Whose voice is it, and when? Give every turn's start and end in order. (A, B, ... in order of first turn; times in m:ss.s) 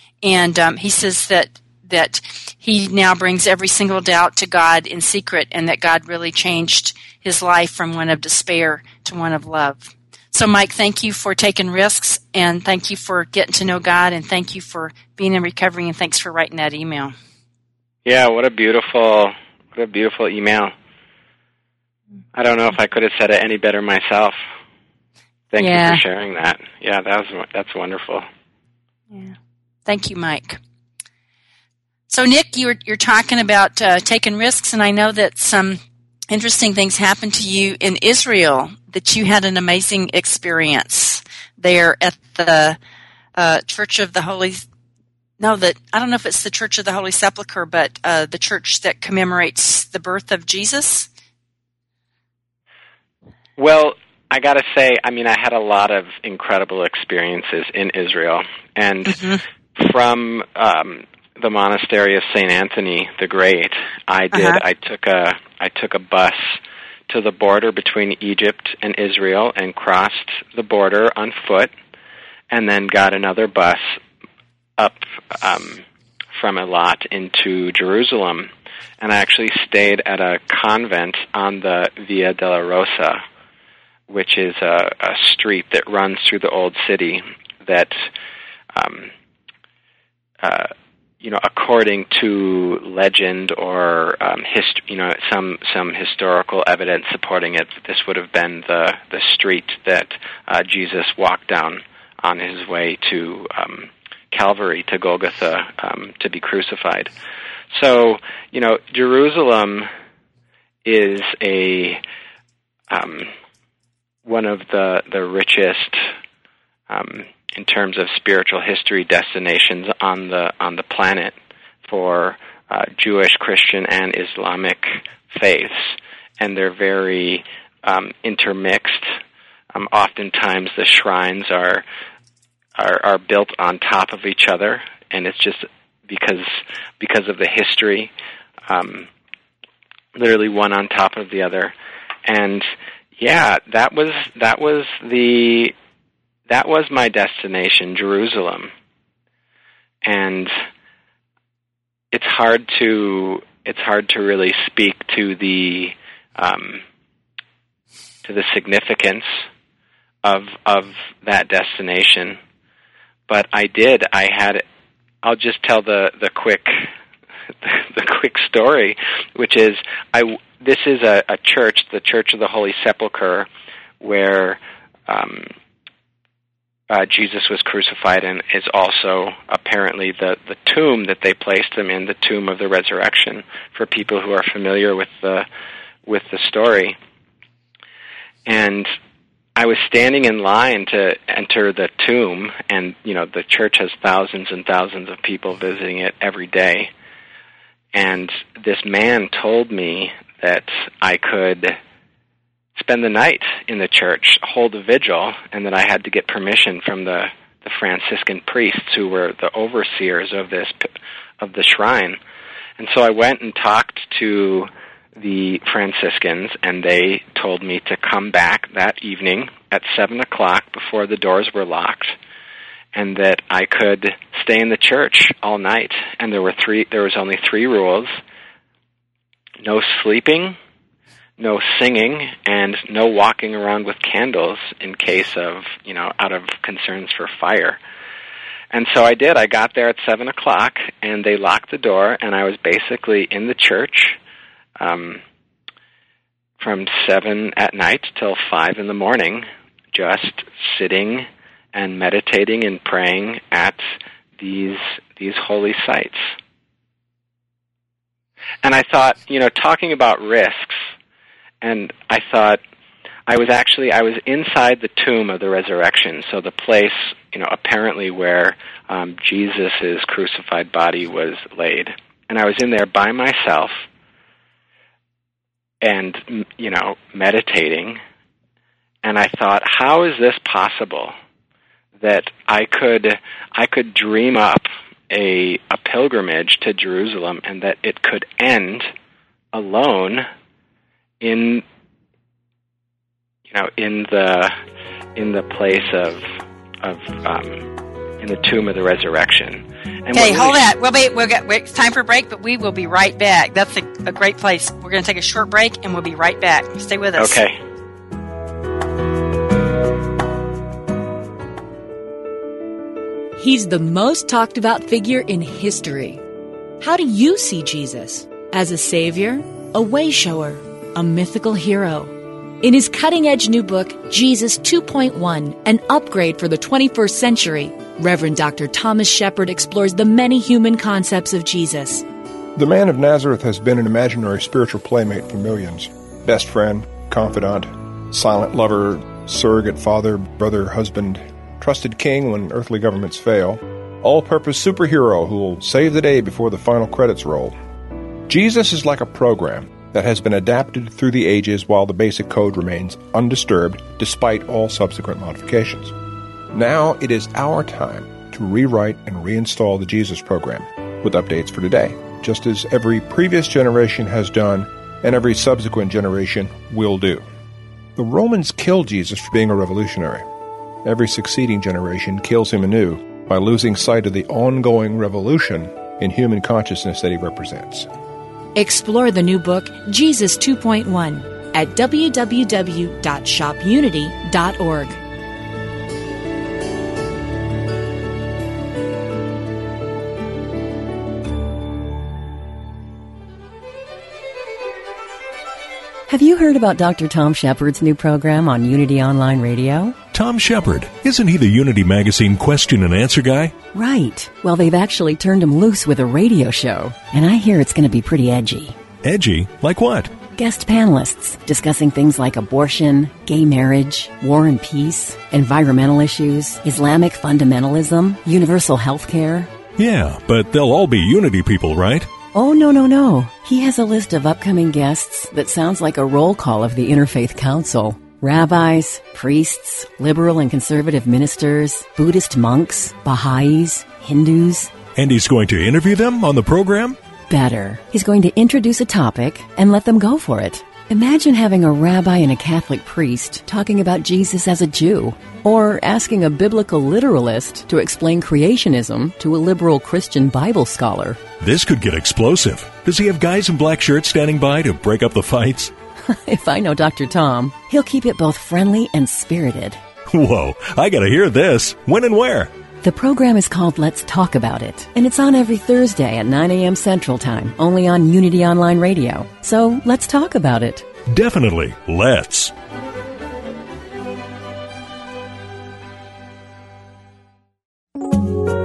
0:00.2-0:17.2 A
0:18.0-0:20.7 B
0:22.3-0:24.4 B
0:25.5-0:28.2 B
0:25.6-0:26.0 A
0:29.8-0:30.6 A
0:32.1-0:42.8 A
0:43.4-0:44.6 A
0:45.4-0:51.1 A
0:53.6-1:11.7 B
0:59.1-0:59.4 A
1:04.3-1:04.6 A
1:12.5-1:14.0 B
1:14.8-1:15.8 B
1:16.4-1:18.5 B
1:19.0-1:23.2 B
1:24.1-1:28.0 B
1:28.7-1:29.1 B
1:30.4-1:47.1 B
1:47.7-1:49.9 B
1:50.8-1:52.0 B
1:52.9-1:53.3 B
1:54.2-1:56.0 B
1:56.9-2:01.3 B
2:01.8-2:09.1 B
2:09.7-2:11.8 B
2:12.8-2:18.1 B
2:18.7-2:19.1 B
2:20.1-2:21.7 B
2:22.2-2:25.7 B
2:26.5-2:28.7 B
2:30.0-2:30.5 B
2:32.1-2:36.8 B
2:38.2-2:39.4 B
2:40.2-2:42.4 B
2:43.3-2:44.6 B
2:45.2-2:46.9 B
2:47.6-2:53.5 B
2:54.0-2:55.5 B
2:56.9-3:05.4 B
3:06.0-3:07.0 B
3:08.4-3:08.9 B
3:09.6-3:16.9 B
3:17.9-3:21.8 B
3:22.8-3:30.9 B
3:31.4-3:32.2 B
3:32.8-3:42.2 B
3:42.9-3:48.1 B
3:49.6-3:50.6 B
3:51.4-3:57.8 B
3:58.7-4:04.2 B
4:04.8-4:05.2 B
4:06.6-4:13.8 B
4:14.4-4:16.3 B
4:18.6-4:20.8 B
4:21.6-4:22.6 B
4:23.3-4:33.8 B
4:35.8-4:38.0 B
4:39.0-4:41.1 B
4:42.0-4:48.9 B
4:49.5-4:50.2 B
4:51.2-4:51.6 B
4:53.5-4:54.5 B
4:55.2-4:56.2 B
4:56.8-4:57.6 B
4:58.2-5:00.6 B
5:00.1-5:07.4 A
5:07.2-5:07.6 B
5:13.4-5:16.2 C
5:16.8-5:32.0 C
5:32.5-5:47.6 D
5:48.3-5:55.9 D
5:56.5-6:07.2 D
6:08.0-6:10.3 D
6:10.8-6:17.9 D
6:18.5-6:25.0 C
6:36.1-6:40.0 E
6:40.1-6:43.5 F
6:43.7-6:48.8 E
6:49.0-6:50.1 F
6:50.3-6:59.5 E
6:59.8-7:02.1 F
7:02.3-7:14.7 E
7:15.0-7:17.0 F
7:17.3-7:31.2 E
7:31.4-7:35.7 F
7:36.0-7:39.8 E
7:40.0-7:42.5 F
7:42.8-7:50.9 E
7:51.1-7:52.5 F